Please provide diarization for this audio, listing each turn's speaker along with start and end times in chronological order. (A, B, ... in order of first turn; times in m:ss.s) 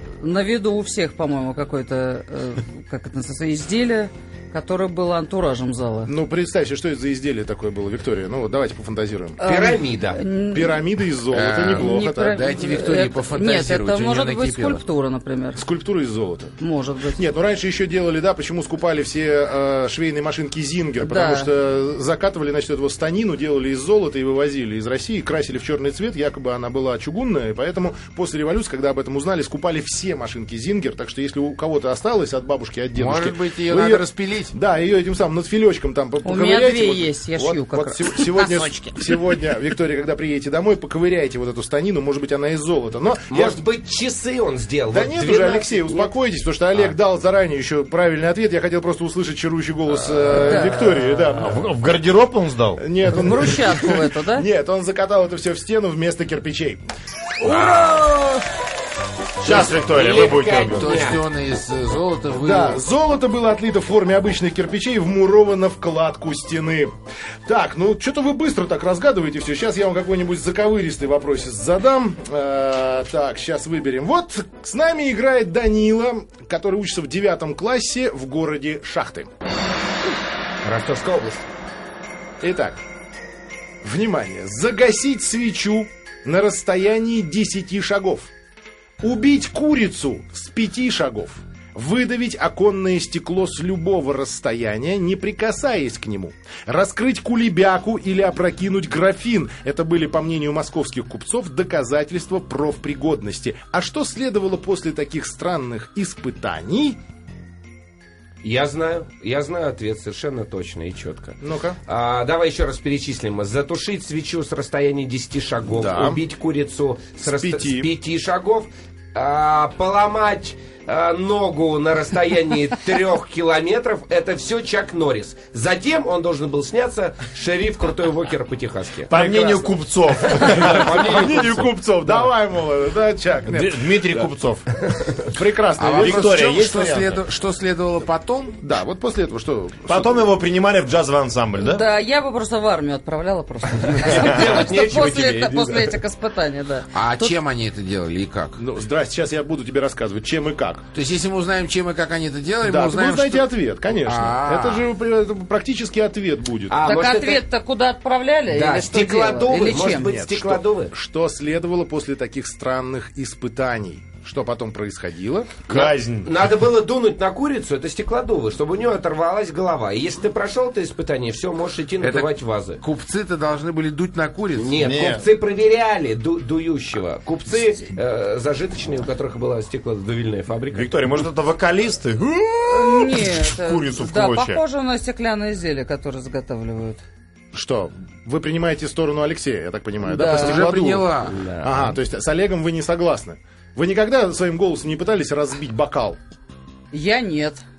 0:00.2-0:06.1 A
0:06.0-0:09.4 B
0:09.4-0:10.8 A
0:09.4-0:10.2 C
0:10.5-0:12.4 B
0:11.3-0:14.8 D
0:11.7-0:15.6 A
0:15.6-0:16.6 B
0:16.6-0:17.2 A
0:17.1-0:43.6 B
0:21.0-0:21.5 A
0:32.9-0:34.5 D
0:36.2-0:38.9 A
0:43.3-0:46.0 C
0:44.9-0:51.6 B
0:50.4-0:51.1 A
0:51.3-0:52.8 E
0:52.8-0:56.8 B
0:53.1-0:54.4 A
0:57.4-0:58.4 B
0:59.4-1:01.0 E
0:59.4-1:01.2 C
1:00.6-1:02.8 D
1:02.4-1:06.9 B
1:07.4-1:19.3 B
1:20.6-1:21.4 C
1:22.4-1:22.8 B
1:23.8-1:28.3 B
1:29.0-1:47.0 B
1:48.4-2:11.7 C
1:51.4-1:51.8 B
1:55.7-1:56.2 B
1:57.2-1:57.9 B
2:09.1-2:11.2 E
2:10.6-2:14.0 B
2:13.5-2:14.6 E
2:15.2-2:16.4 B
2:15.8-2:18.6 D
2:16.0-2:17.2 E
2:18.6-2:20.2 B
2:19.9-2:21.8 E
2:21.6-2:27.3 A
2:23.8-2:26.0 C
2:26.9-2:28.6 D
2:28.6-2:30.8 B
2:30.9-2:34.9 D
2:32.6-2:37.0 B
2:36.7-2:37.4 C
2:36.8-2:40.1 A
2:38.5-2:40.9 C
2:40.0-2:45.6 B
2:45.7-2:52.8 C
2:45.7-2:46.3 E
2:52.0-2:54.8 D
2:54.6-3:01.1 C
2:54.8-2:55.2 E
3:00.7-3:04.6 E
3:02.7-3:07.0 A
3:07.5-3:16.2 B
3:10.0-3:10.7 A
3:10.3-3:11.5 D
3:11.3-3:11.7 C
3:16.9-3:17.6 A